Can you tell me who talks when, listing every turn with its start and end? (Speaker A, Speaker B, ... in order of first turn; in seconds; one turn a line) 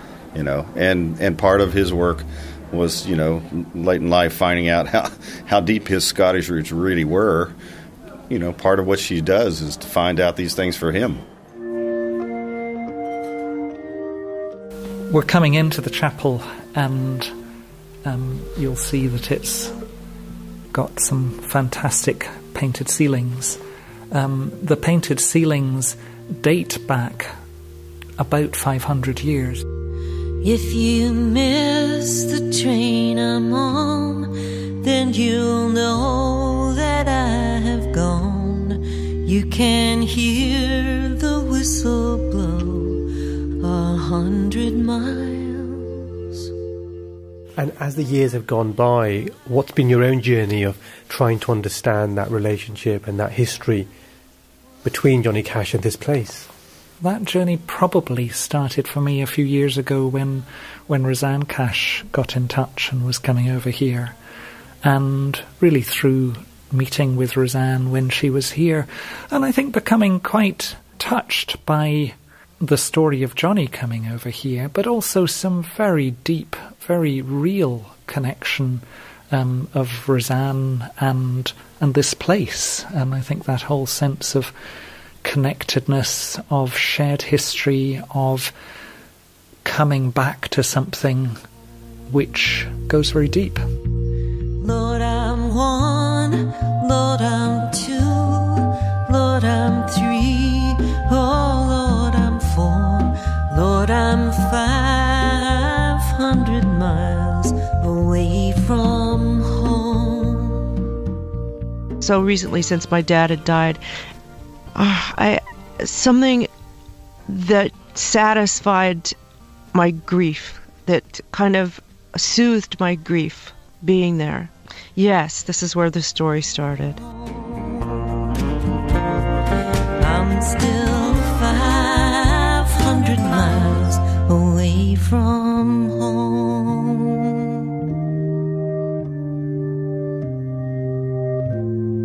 Speaker A: 0.3-7.5
Speaker A: 8.3-11.2
Speaker B: 15.1-17.3
Speaker B: 18.0-19.7
Speaker B: 20.7-23.6
Speaker B: 24.1-27.3
Speaker B: 28.2-29.6
Speaker C: 30.4-43.1
Speaker C: 43.6-46.0
Speaker D: 47.6-53.9
Speaker D: 54.8-56.5
Speaker B: 57.0-64.1
Speaker B: 64.8-84.5
Speaker B: 85.2-88.5
Speaker B: 89.6-91.4
Speaker B: 92.1-93.6
Speaker C: 94.6-110.7
Speaker E: 112.0-113.8
Speaker E: 114.7-116.5
Speaker E: 117.3-119.1
Speaker E: 119.7-127.0
Speaker C: 127.5-128.0
Speaker C: 130.0-137.3